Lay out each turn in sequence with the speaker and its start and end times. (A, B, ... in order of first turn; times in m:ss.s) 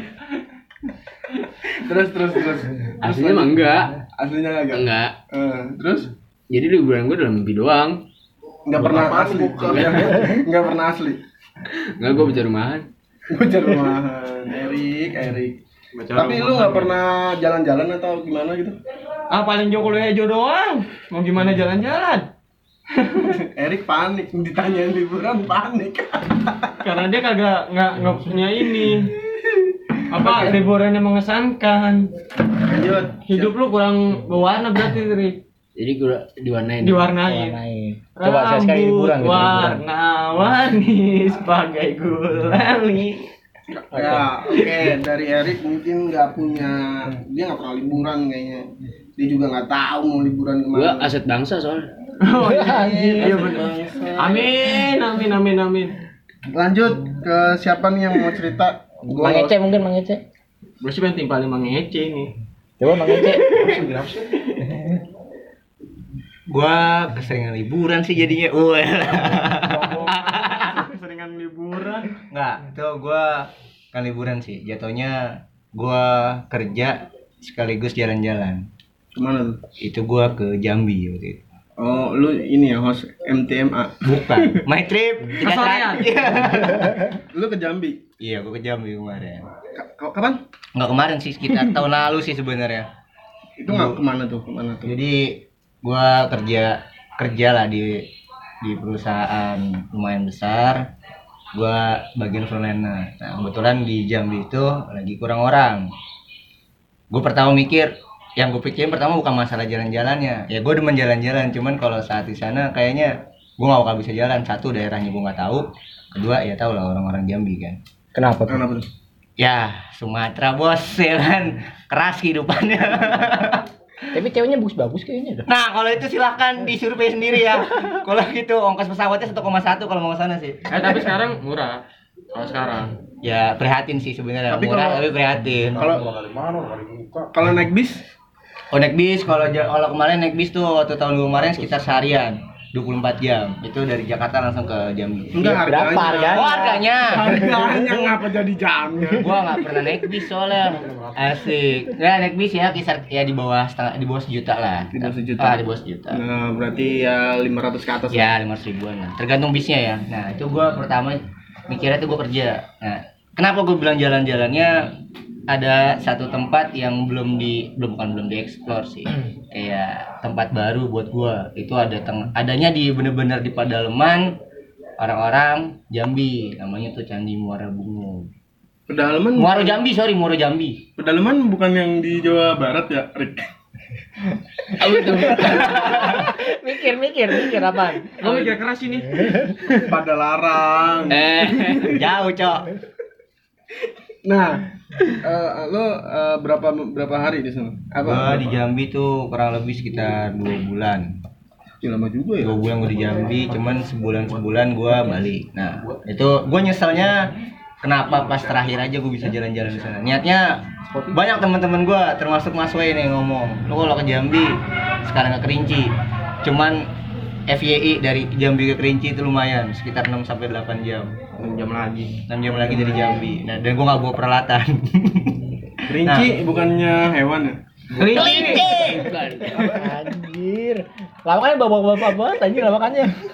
0:01.6-0:06.1 A
0:03.0-0:04.0 B
0:04.7-0:05.2 B
0:06.5-0:08.0 B
0:08.7-0:11.2 A
0:08.8-0:10.2 C
0:12.0-0:12.9 B
0:13.3-0:15.6 A
0:16.0-0:17.0 D
0:16.1-0:18.8 A
0:19.3-0:22.3 D
0:22.9-0:23.4 D
0:23.2-0:26.8 A
0:26.8-0:29.1 D
0:29.3-0:30.6 A
0:30.1-0:32.1 D
0:32.6-0:33.5 A
0:33.3-0:35.4 D
0:35.8-0:37.1 B
0:36.8-0:37.6 D
0:37.2-0:39.8 E
0:38.2-0:43.3 D
0:43.7-0:51.1 A
0:43.9-0:44.9 D
0:50.8-0:51.9 B
0:52.2-0:56.0 D
0:52.4-0:53.5 E
0:52.6-0:54.6 A
0:56.5-0:59.6 A
0:59.1-1:00.2 E
1:00.8-1:02.3 D
1:02.8-1:03.6 E
1:03.5-1:04.3 C
1:06.5-1:10.8 F
1:09.6-1:12.2 D
1:12.3-1:18.7 F
1:19.1-1:19.6 A
1:19.8-1:21.4 F
1:21.8-1:24.7 A
1:24.0-1:27.0 F
1:25.4-1:26.4 D
1:26.4-1:28.0 A
1:28.2-1:29.5 F
1:29.7-1:30.4 A
1:30.8-1:32.9 F
1:33.6-1:34.9 A
1:33.7-1:34.0 F
1:34.8-1:38.1 F
1:38.6-1:40.9 F
1:41.5-1:45.9 F
1:47.1-1:57.8 F
1:58.1-1:58.6 E
1:58.5-1:58.9 A
1:59.4-2:03.6 F
2:04.1-2:05.5 E
2:05.5-2:10.7 F
2:10.7-2:12.9 D
2:13.2-2:15.9 F
2:14.5-2:15.1 A
2:15.8-2:16.1 A
2:15.8-2:17.3 C
2:17.3-2:18.1 A
2:18.7-2:25.7 F
2:25.3-2:29.9 A
2:25.6-2:27.8 E
2:26.3-2:27.2 F
2:29.1-2:36.2 F
2:30.6-2:31.4 C
2:34.9-2:35.6 A
2:36.1-2:38.3 A
2:38.1-2:44.9 F
2:45.5-2:54.4 F
2:55.0-2:58.3 F
2:58.9-2:59.8 A
2:59.4-3:00.8 F
3:01.0-3:03.5 A
3:04.8-3:06.0 B
3:04.8-3:06.3 A
3:05.8-3:08.1 E
3:08.2-3:08.5 A
3:08.2-3:09.6 D
3:09.7-3:11.9 A
3:11.1-3:11.9 B
3:11.9-3:12.7 F
3:14.2-3:18.6 A
3:18.0-3:21.1 F
3:21.8-3:22.7 A
3:22.4-3:27.3 F
3:27.8-3:35.9 F
3:36.4-3:36.9 F
3:37.5-3:41.1 F
3:41.4-3:43.0 D
3:42.3-3:45.5 F
3:45.8-3:47.6 A
3:46.0-3:46.3 F
3:48.0-3:49.1 F
3:48.0-3:49.7 B
3:49.5-3:50.0 A
3:49.5-3:53.2 E